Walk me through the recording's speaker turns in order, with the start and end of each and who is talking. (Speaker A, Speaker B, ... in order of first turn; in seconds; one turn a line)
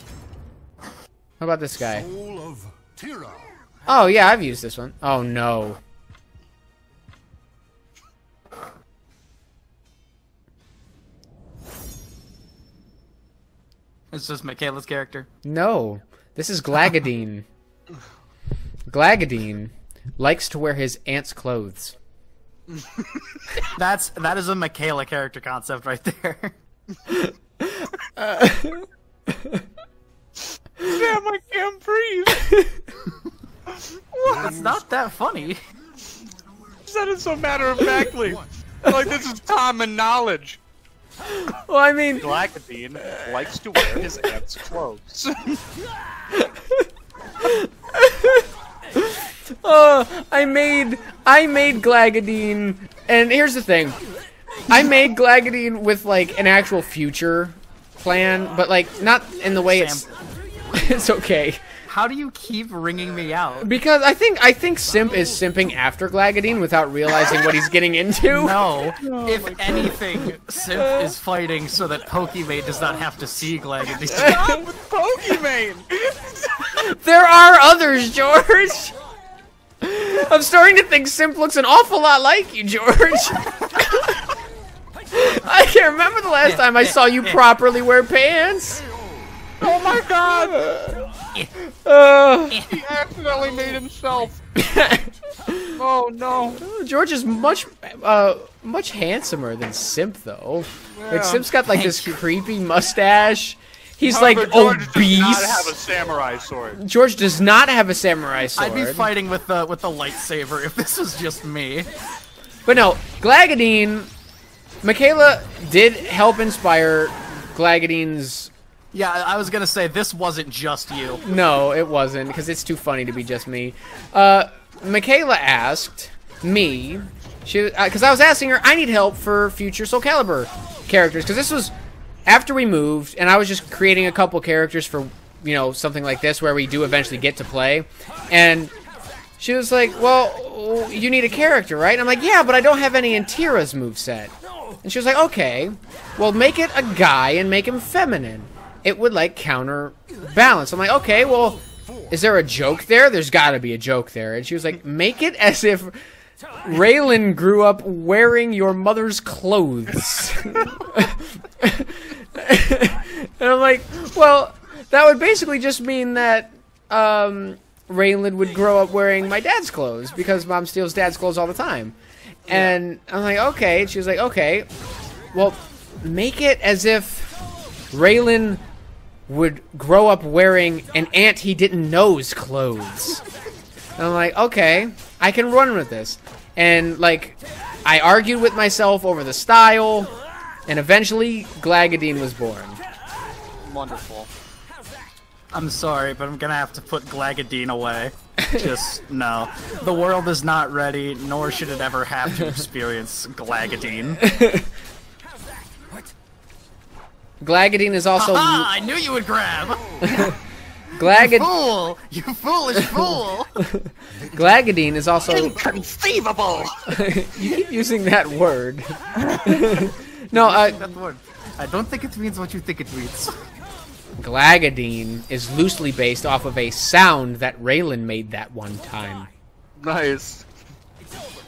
Speaker A: 1.4-2.1
Speaker B: 1.8-3.7
Speaker A: 3.9-5.8
Speaker C: 14.1-15.3
Speaker A: 15.4-17.4
Speaker A: 18.9-21.9
Speaker C: 23.6-26.5
Speaker A: 27.1-29.6
Speaker D: 30.8-32.5
Speaker A: 32.4-32.8
Speaker D: 33.7-34.5
Speaker B: 34.2-34.9
Speaker C: 34.4-35.6
Speaker D: 36.9-40.6
Speaker B: 38.1-38.5
Speaker A: 41.2-42.2
Speaker D: 42.2-45.4
Speaker A: 43.8-44.0
Speaker A: 46.3-46.9
Speaker A: 47.4-54.0
Speaker A: 54.7-60.1
Speaker C: 59.6-60.1
Speaker A: 60.7-61.6
Speaker C: 61.9-63.7
Speaker A: 63.6-68.7
Speaker C: 68.3-74.4
Speaker D: 69.0-70.0
Speaker A: 70.8-71.1
Speaker D: 74.0-76.8
Speaker A: 74.2-74.6
Speaker A: 76.8-78.9
Speaker A: 79.8-84.1
Speaker A: 85.1-88.8
Speaker C: 86.4-87.4
Speaker D: 89.6-90.6
Speaker A: 90.5-91.1
Speaker A: 91.7-92.6
Speaker C: 92.5-92.8
Speaker D: 92.7-94.4
Speaker A: 94.6-95.8
Speaker D: 95.8-96.6
Speaker A: 96.6-105.7
Speaker D: 100.9-101.5
Speaker C: 101.7-102.2
Speaker D: 104.0-106.8
Speaker A: 106.8-109.1
Speaker C: 108.5-111.9
Speaker A: 112.6-114.1
Speaker A: 114.8-118.5
Speaker C: 118.9-121.2
Speaker A: 121.2-131.7
Speaker A: 132.2-138.7
Speaker A: 139.4-156.0
Speaker A: 156.6-171.9
Speaker A: 172.5-174.7
Speaker D: 172.5-172.8
Speaker A: 175.3-177.3
Speaker A: 177.9-178.6
Speaker A: 179.3-183.2
Speaker A: 184.0-190.1
Speaker A: 190.7-192.8
Speaker D: 193.6-194.3
Speaker C: 195.5-204.2
Speaker A: 204.2-204.7
Speaker A: 207.4-208.7
Speaker C: 208.2-210.3
Speaker A: 210.0-210.3
Speaker A: 210.9-211.5
Speaker C: 211.0-213.6
Speaker A: 212.8-213.1
Speaker A: 213.6-215.5
Speaker B: 214.1-215.8
Speaker D: 215.2-216.9
Speaker A: 216.9-220.8
Speaker D: 219.2-219.5
Speaker C: 220.3-223.3
Speaker A: 224.2-229.3
Speaker D: 229.8-230.5